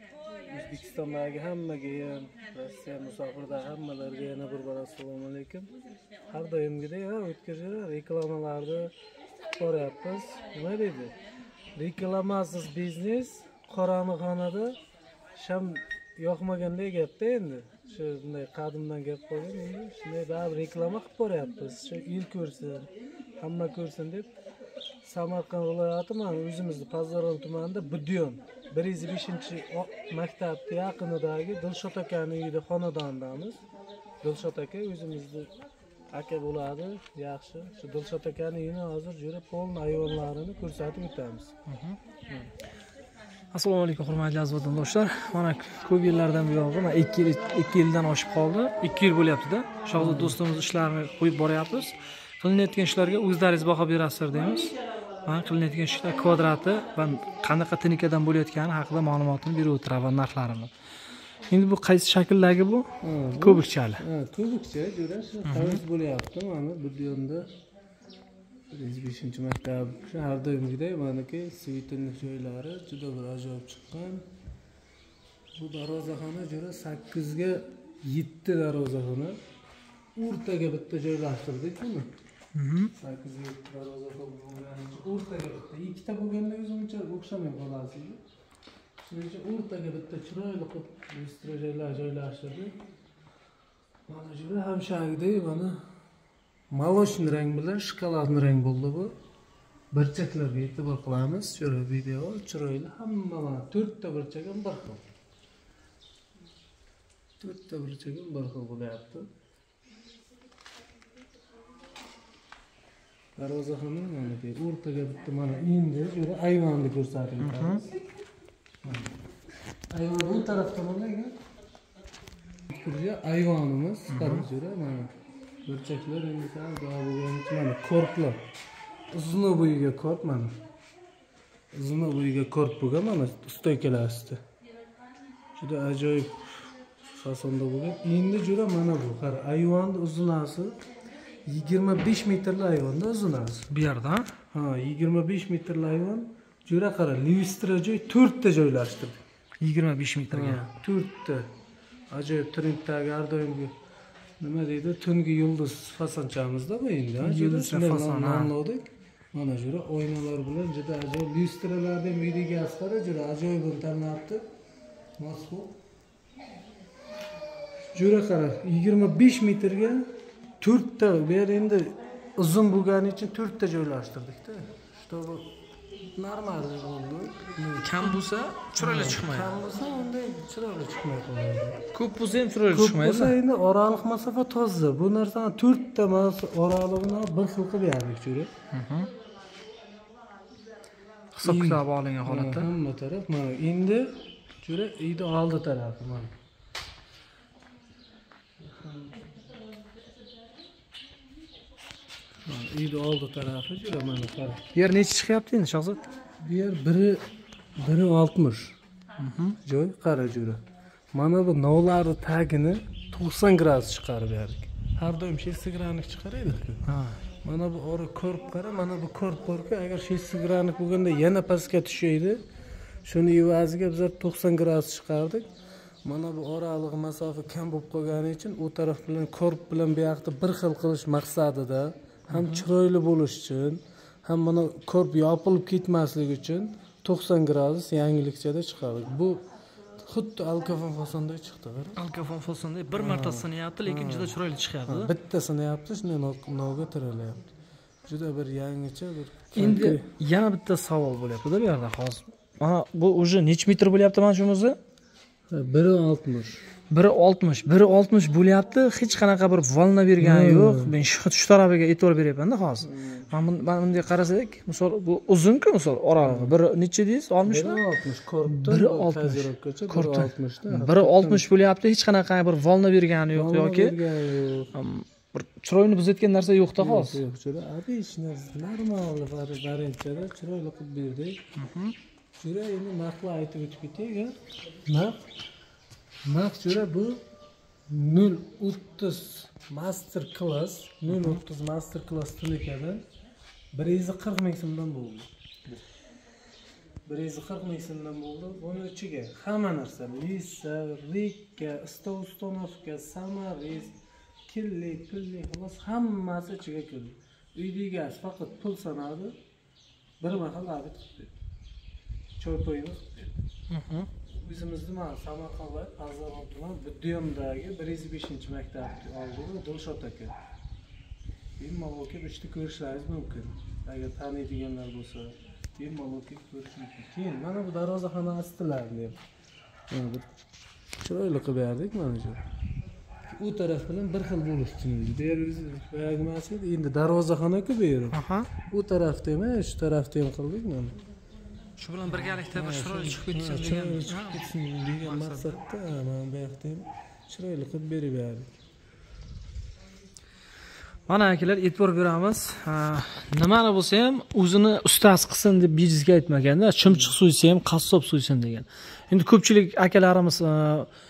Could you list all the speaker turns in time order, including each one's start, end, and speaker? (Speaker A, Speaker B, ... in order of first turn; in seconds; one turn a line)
Speaker A: 0.5-5.7
Speaker A: 6.3-8.9
Speaker A: 9.6-11.2
Speaker A: 11.8-14.8
Speaker A: 15.3-24.3
Speaker A: 25.0-33.6
Speaker A: 34.2-35.5
Speaker A: 36.1-41.5
Speaker B: 41.7-42.1
Speaker B: 43.5-60.7
Speaker A: 50.0-50.4
Speaker B: 61.5-62.9
Speaker A: 63.0-67.5
Speaker B: 63.4-64.0
Speaker B: 65.4-65.8
Speaker A: 68.7-74.2
Speaker A: 75.6-79.4
Speaker A: 80.2-82.1
Speaker B: 82.5-82.9
Speaker A: 82.9-88.2
Speaker A: 89.0-92.7
Speaker A: 94.1-95.8
Speaker A: 96.7-99.1
Speaker A: 99.9-105.0
Speaker A: 107.4-109.3
Speaker A: 113.4-117.9
Speaker B: 117.4-117.8
Speaker A: 119.9-121.4
Speaker A: 122.7-125.1
Speaker B: 124.1-124.5
Speaker A: 125.7-128.4
Speaker A: 129.1-130.5
Speaker A: 131.7-134.4
Speaker A: 135.6-136.5
Speaker A: 137.2-140.8
Speaker A: 141.5-143.7
Speaker B: 143.7-144.4
Speaker A: 144.5-149.2
Speaker B: 149.6-150.7
Speaker A: 150.3-151.5
Speaker A: 152.1-153.7
Speaker A: 154.4-164.4
Speaker B: 157.2-158.5
Speaker A: 165.2-165.8
Speaker A: 167.9-170.1
Speaker A: 170.6-175.5
Speaker A: 176.2-178.2
Speaker B: 177.8-179.6
Speaker A: 178.8-181.8
Speaker B: 181.9-183.4
Speaker A: 182.7-188.5
Speaker B: 188.7-189.1
Speaker B: 191.3-192.7
Speaker A: 191.4-196.3
Speaker A: 198.7-199.1
Speaker A: 202.5-204.6
Speaker B: 204.7-206.1
Speaker A: 206.4-207.2
Speaker A: 207.8-208.8
Speaker B: 209.2-209.6
Speaker A: 209.6-210.6
Speaker A: 211.1-222.4
Speaker B: 216.8-217.2
Speaker A: 223.1-225.5
Speaker A: 226.1-239.4
Speaker B: 232.3-232.7
Speaker A: 240.0-242.0
Speaker B: 241.9-245.1
Speaker A: 242.9-247.5
Speaker A: 248.1-250.1
Speaker B: 249.5-254.8
Speaker A: 255.5-256.6
Speaker B: 256.9-267.8
Speaker A: 260.2-260.9
Speaker A: 262.8-263.3
Speaker A: 266.2-266.5
Speaker A: 267.4-271.4
Speaker B: 268.5-274.0
Speaker A: 273.3-274.7
Speaker B: 274.7-277.2
Speaker A: 276.8-281.4
Speaker B: 281.6-281.9
Speaker A: 282.4-284.4
Speaker A: 284.9-285.3
Speaker A: 286.2-287.2
Speaker A: 287.9-293.0
Speaker B: 291.1-291.4
Speaker A: 293.7-295.3
Speaker A: 297.1-303.9
Speaker A: 304.5-309.4
Speaker A: 310.2-311.3
Speaker A: 312.4-313.4
Speaker B: 313.7-314.1
Speaker A: 314.3-320.3
Speaker A: 321.6-329.2
Speaker A: 329.9-330.3
Speaker A: 331.0-332.4
Speaker A: 333.3-341.0
Speaker B: 338.1-338.5
Speaker B: 341.8-344.4
Speaker A: 342.1-348.5
Speaker B: 345.0-345.6
Speaker B: 351.1-360.9
Speaker A: 356.9-357.1